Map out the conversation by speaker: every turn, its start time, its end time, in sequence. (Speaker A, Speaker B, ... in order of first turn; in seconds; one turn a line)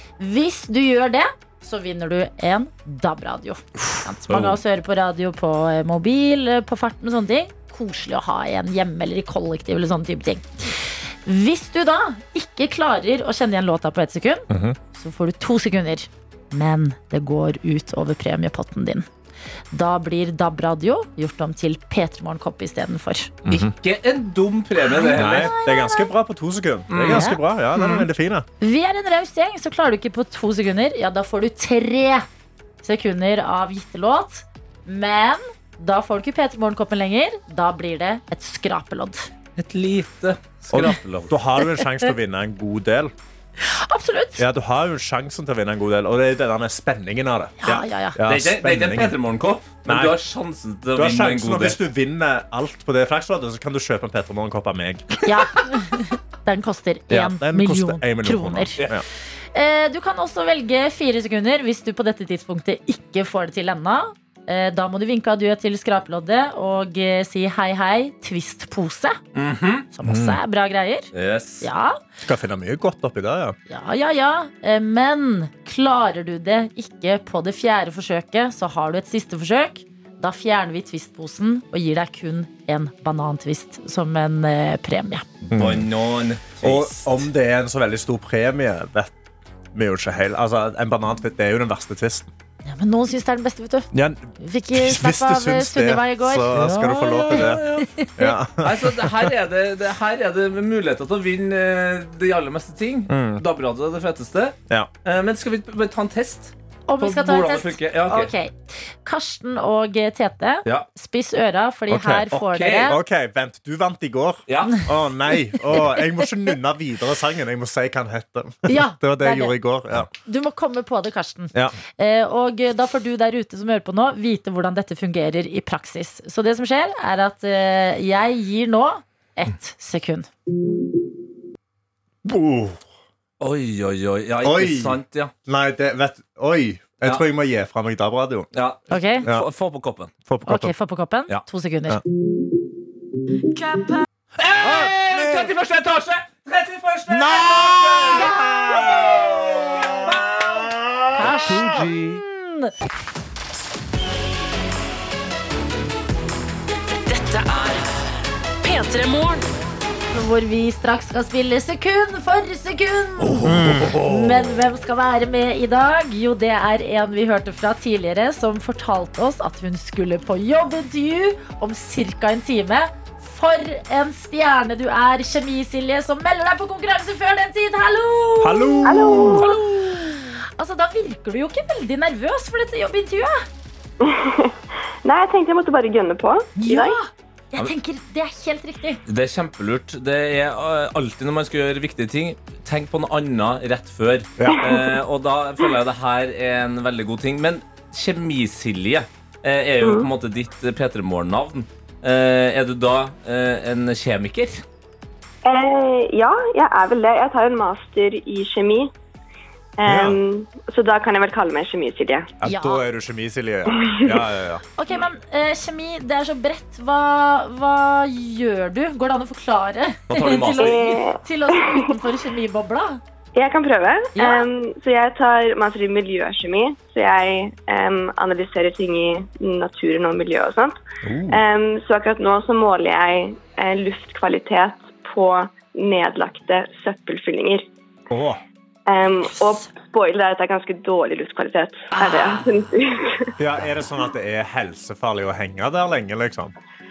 Speaker A: 0.2-19.1
Speaker B: 4.3-4.6
Speaker C: 14.5-14.8
Speaker A: 19.7-23.3
Speaker C: 23.4-23.7
Speaker B: 23.5-25.5
Speaker A: 24.9-26.1
Speaker C: 25.1-28.4
Speaker B: 26.9-27.3
Speaker A: 27.1-27.4
Speaker A: 28.6-32.2
Speaker A: 32.8-39.3
Speaker B: 39.6-41.3
Speaker C: 40.7-43.1
Speaker A: 43.6-44.4
Speaker C: 44.4-49.1
Speaker A: 47.6-48.2
Speaker B: 48.2-51.8
Speaker C: 49.9-50.2
Speaker C: 50.9-55.2
Speaker A: 55.2-58.8
Speaker C: 57.1-59.0
Speaker A: 59.5-69.2
Speaker B: 69.3-69.9
Speaker A: 69.9-71.1
Speaker C: 70.0-70.4
Speaker B: 71.1-71.7
Speaker A: 71.6-72.0
Speaker C: 72.2-73.5
Speaker A: 73.7-85.2
Speaker C: 85.5-85.9
Speaker B: 85.5-87.2
Speaker C: 86.6-89.1
Speaker C: 89.7-92.3
Speaker A: 92.6-98.3
Speaker C: 93.9-99.3
Speaker B: 97.3-97.9
Speaker B: 98.6-108.3
Speaker C: 103.1-103.4
Speaker A: 106.9-113.0
Speaker C: 111.9-112.3
Speaker B: 112.3-113.0
Speaker C: 112.8-120.1
Speaker B: 114.5-114.9
Speaker A: 118.7-119.5
Speaker A: 120.2-130.3
Speaker C: 132.2-132.8
Speaker B: 133.4-135.3
Speaker C: 134.4-138.5
Speaker B: 138.5-140.1
Speaker A: 138.9-139.2
Speaker C: 139.2-139.5
Speaker C: 140.2-140.7
Speaker A: 140.4-142.0
Speaker B: 144.4-148.3
Speaker C: 144.6-145.5
Speaker C: 147.1-151.8
Speaker A: 148.1-149.1
Speaker B: 150.1-152.2
Speaker A: 151.1-152.7
Speaker D: 156.7-158.0
Speaker D: 158.6-159.5
Speaker A: 160.1-183.4
Speaker B: 163.2-164.0
Speaker C: 163.4-164.4
Speaker C: 178.4-179.5
Speaker E: 178.8-179.7
Speaker E: 184.0-187.0
Speaker A: 186.6-189.0
Speaker B: 189.1-204.6
Speaker C: 194.4-194.7
Speaker E: 194.5-194.8
Speaker E: 199.8-200.1
Speaker E: 205.4-208.9
Speaker E: 209.8-212.3
Speaker C: 209.8-210.2
Speaker C: 212.4-214.6
Speaker A: 212.4-212.8
Speaker E: 213.7-214.2
Speaker A: 214.8-223.0
Speaker B: 220.1-221.0
Speaker E: 220.6-221.9
Speaker E: 223.3-230.8
Speaker A: 224.1-224.4
Speaker C: 231.0-231.4
Speaker E: 231.3-237.7
Speaker C: 238.1-238.4
Speaker E: 238.9-243.3
Speaker A: 239.2-239.7
Speaker A: 241.9-242.4
Speaker C: 243.4-246.5